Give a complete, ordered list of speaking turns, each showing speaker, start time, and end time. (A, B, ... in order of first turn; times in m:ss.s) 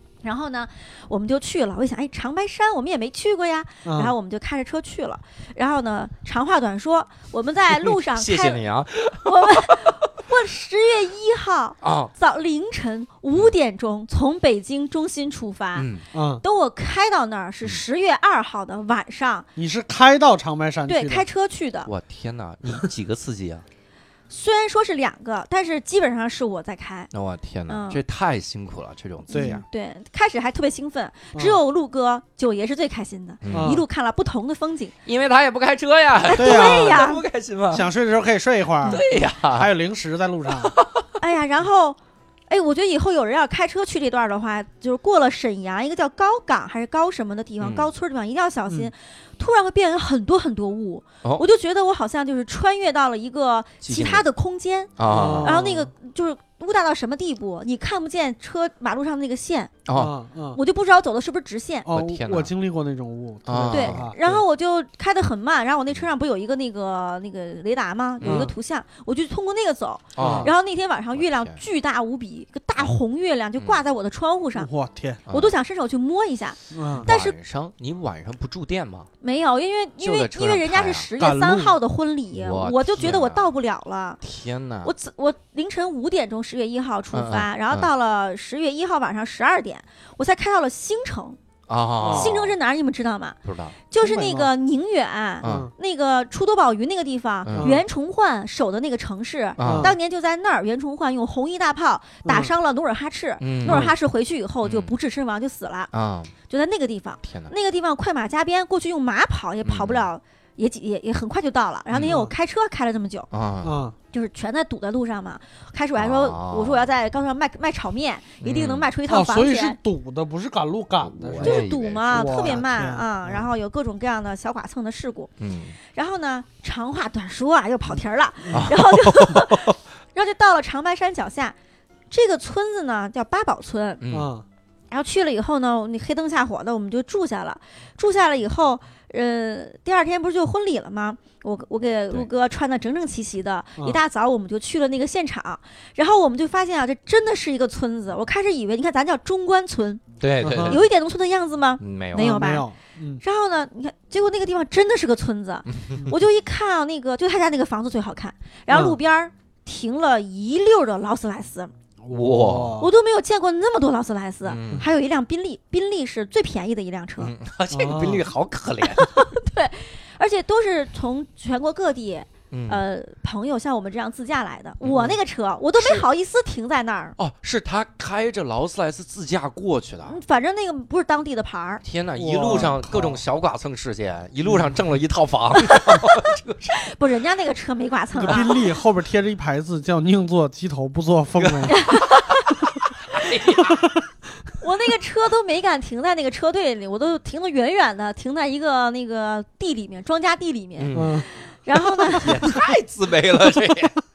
0:00.2-0:08.6 A
0:03.8-0:04.1 B
0:07.8-0:09.8 C
0:09.2-0:15.9 A
0:11.8-0:12.1 C
0:15.8-0:16.0 C
0:16.1-0:16.4 B
0:16.4-0:19.4 A
0:19.6-0:21.2 B
0:20.9-0:21.9 A
0:21.8-0:23.6 C
0:24.3-0:27.1 A
0:27.1-0:29.6 C
0:27.7-0:28.0 A
0:29.3-0:34.9 A
0:29.3-0:29.6 B
0:31.3-0:31.6 B
0:33.4-0:33.8 C
0:33.5-0:33.8 B
0:35.0-0:37.9 C
0:36.2-0:37.2 A
0:36.4-0:37.0 B
0:37.7-0:40.8 B
0:38.8-0:39.7 C
0:40.5-0:41.1 C
0:41.2-0:42.0 A
0:42.5-0:59.7 A
0:47.6-0:47.9 C
0:53.8-0:54.3 C
0:55.0-0:55.6 C
0:55.1-0:55.9 B
0:59.8-1:00.1 C
0:59.9-1:00.6 B
1:00.5-1:01.9 A
1:01.8-1:04.4 B
1:01.9-1:02.5 C
1:03.5-1:04.1 C
1:03.7-1:14.7 A
1:08.2-1:08.5 C
1:08.2-1:08.5 B
1:10.1-1:10.5 C
1:10.2-1:10.5 B
1:11.1-1:11.6 C
1:14.6-1:15.2 B
1:15.3-1:15.5 C
1:15.3-1:17.3 A
1:16.7-1:17.1 B
1:17.0-1:19.1 C
1:19.2-1:24.2 A
1:20.0-1:21.1 C
1:21.2-1:21.8 B
1:22.4-1:23.5 C
1:24.2-1:24.9 C
1:24.8-1:31.4 A
1:27.1-1:27.9 C
1:31.7-1:32.6 C
1:32.0-1:32.4 B
1:32.1-1:33.4 A
1:33.4-1:33.8 C
1:33.9-1:45.9 A
1:34.0-1:34.5 B
1:35.4-1:35.7 C
1:35.4-1:35.7 B
1:37.4-1:37.7 C
1:37.5-1:37.8 B
1:39.6-1:39.9 C
1:39.6-1:39.9 B
1:42.2-1:42.5 B
1:43.4-1:43.9 C
1:43.6-1:43.9 B
1:44.6-1:44.9 C
1:45.9-1:46.3 C
1:46.5-1:53.3 A
1:47.2-1:47.5 C
1:49.6-1:50.0 C
1:52.0-1:52.3 B
1:53.3-1:53.8 C
1:53.6-1:53.9 B
1:54.1-1:59.8 A
1:56.0-1:56.9 C
1:58.4-1:58.9 C
1:59.1-2:03.5 B
2:01.0-2:02.6 C
2:01.4-2:05.3 A
2:05.4-2:05.8 C
2:05.9-2:11.5 A
2:08.5-2:09.7 C
2:12.1-2:14.0 A
2:14.0-2:14.3 C
2:14.1-2:14.4 B
2:14.9-2:30.0 A
2:30.2-2:30.8 C
2:30.4-2:30.8 B
2:30.6-2:32.6 A
2:31.8-2:32.4 C
2:32.1-2:33.2 B
2:33.2-2:41.7 A
2:35.7-2:36.0 C
2:38.7-2:39.0 B
2:42.0-2:42.9 B
2:42.1-2:42.8 C
2:42.8-2:47.3 A
2:44.4-2:44.9 C
2:47.2-2:49.1 C
2:47.7-2:48.2 B
2:48.9-2:57.2 A
2:52.5-2:52.8 C
2:54.8-2:55.1 C
2:55.8-2:56.0 C
2:57.2-3:00.2 C
3:00.1-3:01.8 A
3:01.8-3:06.8 C
3:02.2-3:03.2 B
3:04.4-3:04.7 B
3:05.6-3:06.1 A
3:06.8-3:08.5 A
3:08.2-3:11.8 B
3:11.4-3:13.9 C
3:11.7-3:12.5 A
3:14.6-3:22.5 A
3:20.8-3:21.3 C
3:20.9-3:21.3 B
3:22.0-3:24.0 C